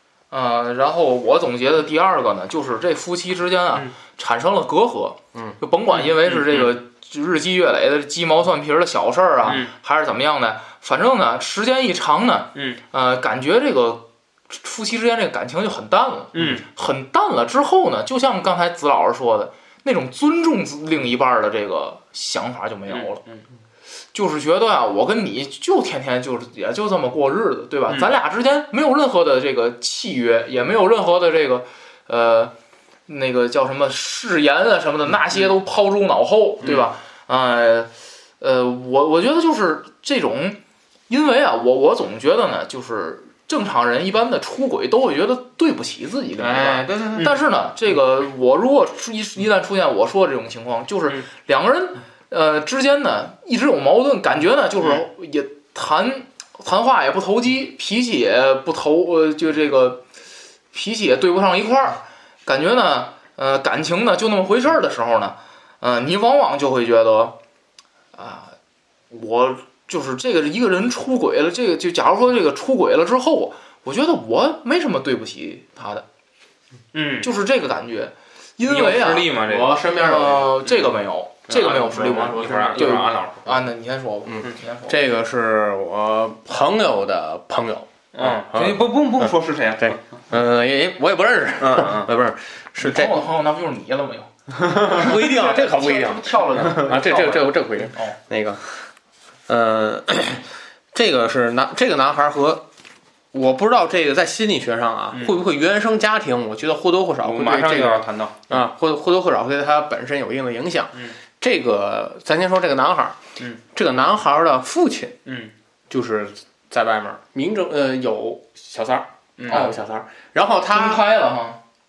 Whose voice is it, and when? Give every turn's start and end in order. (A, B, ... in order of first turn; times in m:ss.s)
0:00.3-0:23.2 A
0:05.9-0:06.8 B
0:09.4-0:09.7 B
0:12.5-0:12.8 B
0:16.3-0:16.6 B
0:22.9-0:23.4 B
0:24.1-0:32.5 A
0:33.1-1:00.0 A
0:46.4-0:47.4 C
1:00.7-1:07.4 A
1:08.1-1:08.5 A
1:09.1-1:16.0 A
1:16.9-1:17.3 B
1:17.2-1:19.4 A
1:18.6-1:19.8 B
1:19.4-1:20.6 C
1:19.9-1:25.0 A
1:20.6-1:20.9 B
1:21.5-1:23.3 B
1:21.6-1:23.5 C
1:24.3-1:33.2 C
1:28.1-1:30.0 B
1:31.6-1:32.1 B
1:32.8-1:38.2 A
1:34.6-1:38.8 C
1:39.5-1:42.6 C
1:43.3-1:53.2 C
1:45.1-1:45.4 B
1:47.2-1:48.6 B
1:53.7-1:55.2 C
1:55.2-1:55.5 B
1:55.9-2:01.0 C
1:59.4-1:59.6 B
1:59.5-1:59.8 A
2:00.7-2:01.6 A